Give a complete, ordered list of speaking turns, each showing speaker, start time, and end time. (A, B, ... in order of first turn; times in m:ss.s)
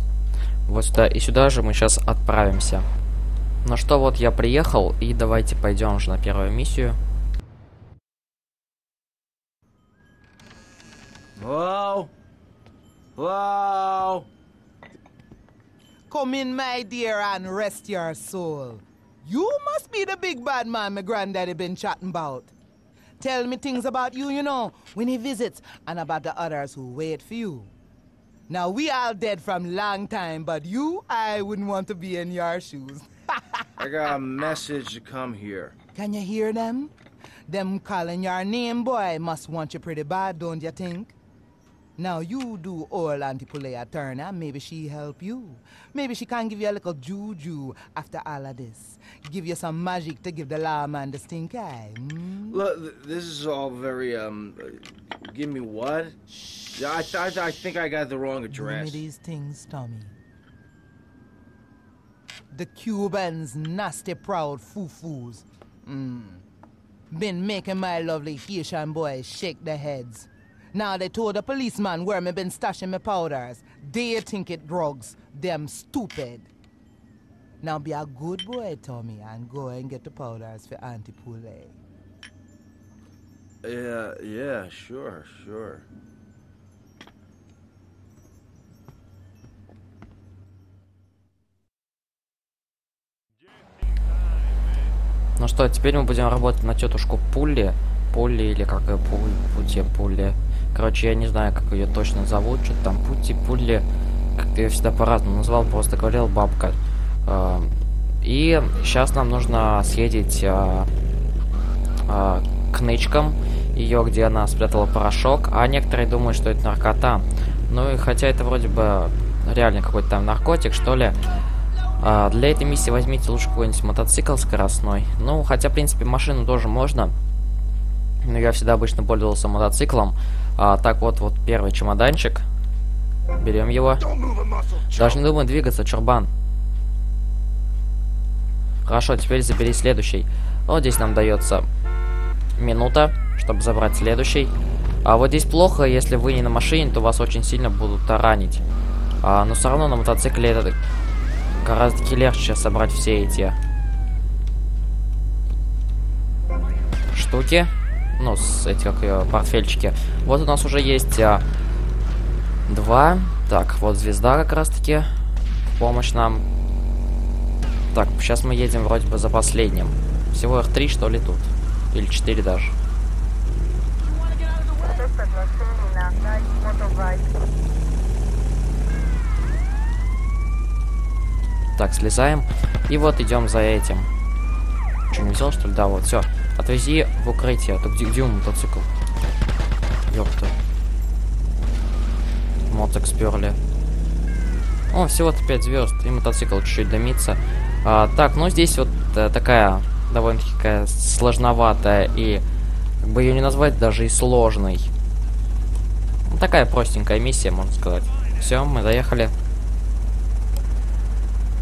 0:00.7-0:02.9 A
0:03.6-0:07.0 A
0:11.4-0:12.1 B
0:13.2-0:14.3 B
0:16.1-0:22.5 C
0:23.2-0:27.7 C
0:28.5-0:33.4 C
0:33.8-0:35.8 B
0:36.0-0:36.9 C
0:37.5-0:41.2 C
0:42.0-0:52.6 C
0:52.5-0:56.2 B
0:56.3-0:56.8 C
0:56.7-0:59.0 B
0:58.5-1:00.2 C
1:02.5-1:06.4 C
1:07.1-1:16.5 C
1:17.6-1:21.8 C
1:23.6-1:25.8 B
1:35.4-1:43.9 A
1:44.4-1:50.9 A
1:52.1-2:01.2 A
2:02.0-2:07.2 A
2:08.2-2:12.4 A
2:13.3-2:14.1 A
2:14.3-2:14.9 B
2:14.9-2:16.3 A
2:18.8-2:21.7 A
2:22.6-2:24.5 A
2:25.0-2:28.6 A
2:29.2-2:30.8 A
2:31.6-2:33.6 A
2:37.1-2:41.4 A
2:42.7-2:45.1 A
2:45.7-2:46.4 A
2:47.9-2:52.8 A
2:54.8-2:57.3 C
3:01.8-3:04.1 A
3:05.1-3:08.9 A
3:10.1-3:10.5 A
3:12.7-3:13.6 A
3:14.9-3:22.4 A
3:23.0-3:24.9 A
3:26.3-3:29.3 A